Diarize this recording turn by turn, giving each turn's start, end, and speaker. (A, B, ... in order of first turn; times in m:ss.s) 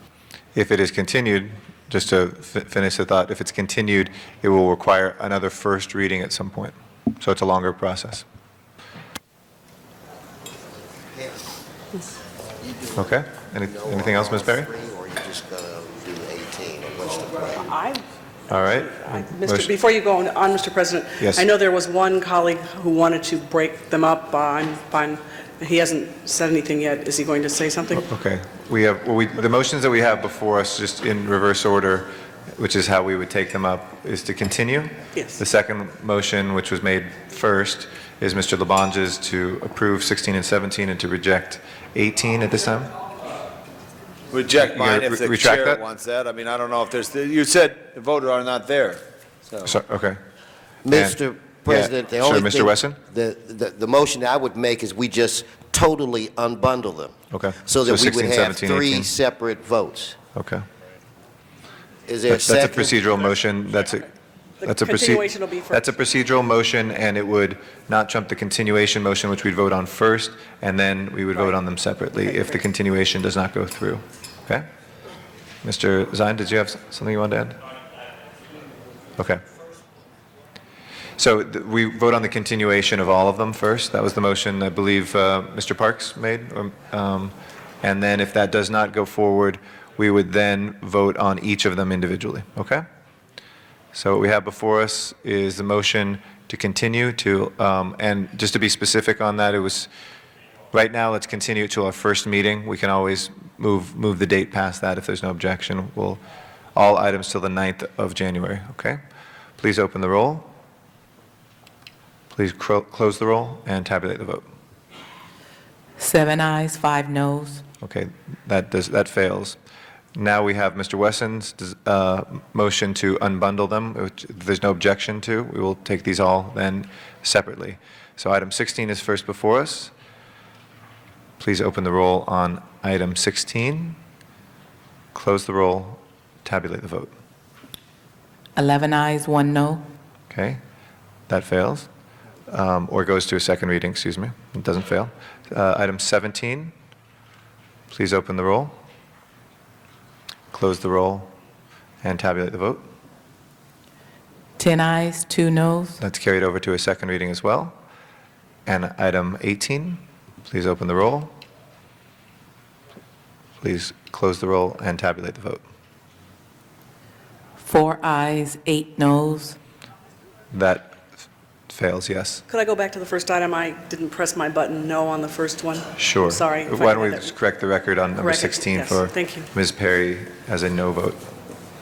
0:00.5-0:08.2 A
0:11.1-0:11.4 B
0:12.6-0:13.1 B
0:13.0-0:14.7 A
0:13.6-0:17.7 B
0:17.6-0:28.0 C
0:18.5-0:19.7 A
0:21.2-0:21.5 A
0:28.0-0:42.9 A
0:44.3-0:49.0 D
0:44.6-0:45.8 A
0:49.6-0:50.2 A
0:50.8-0:57.1 B
0:50.9-0:53.0 A
0:57.3-0:59.1 A
0:57.6-1:00.2 B
1:00.3-1:00.6 A
1:02.1-1:02.9 B
1:02.3-1:04.1 A
1:04.6-1:05.8 C
1:04.6-1:14.6 A
1:15.6-1:17.6 A
1:19.2-1:19.4 A
1:21.2-1:32.8 A
1:33.9-1:39.9 A
1:40.7-1:46.2 A
1:46.7-1:49.0 A
1:49.6-1:50.5 A
1:52.3-1:54.4 A
1:56.0-1:57.6 E
1:57.8-1:59.6 A
2:00.2-2:09.9 A
2:11.4-2:14.0 A
2:15.1-2:17.1 A
2:18.6-2:19.8 E
2:20.3-2:20.6 A
2:21.3-2:21.9 A
2:22.5-2:26.7 A
2:27.9-2:28.7 A
2:30.5-2:31.3 A
2:32.0-2:32.8 A
2:34.6-2:36.0 E
2:36.0-2:37.8 A
2:38.6-2:41.3 A
2:43.6-2:45.6 A
2:47.6-2:49.6 E
2:50.5-2:51.0 A
2:51.7-2:52.4 A
2:52.5-2:57.3 C
2:56.0-3:01.2 A
2:58.2-2:59.5 C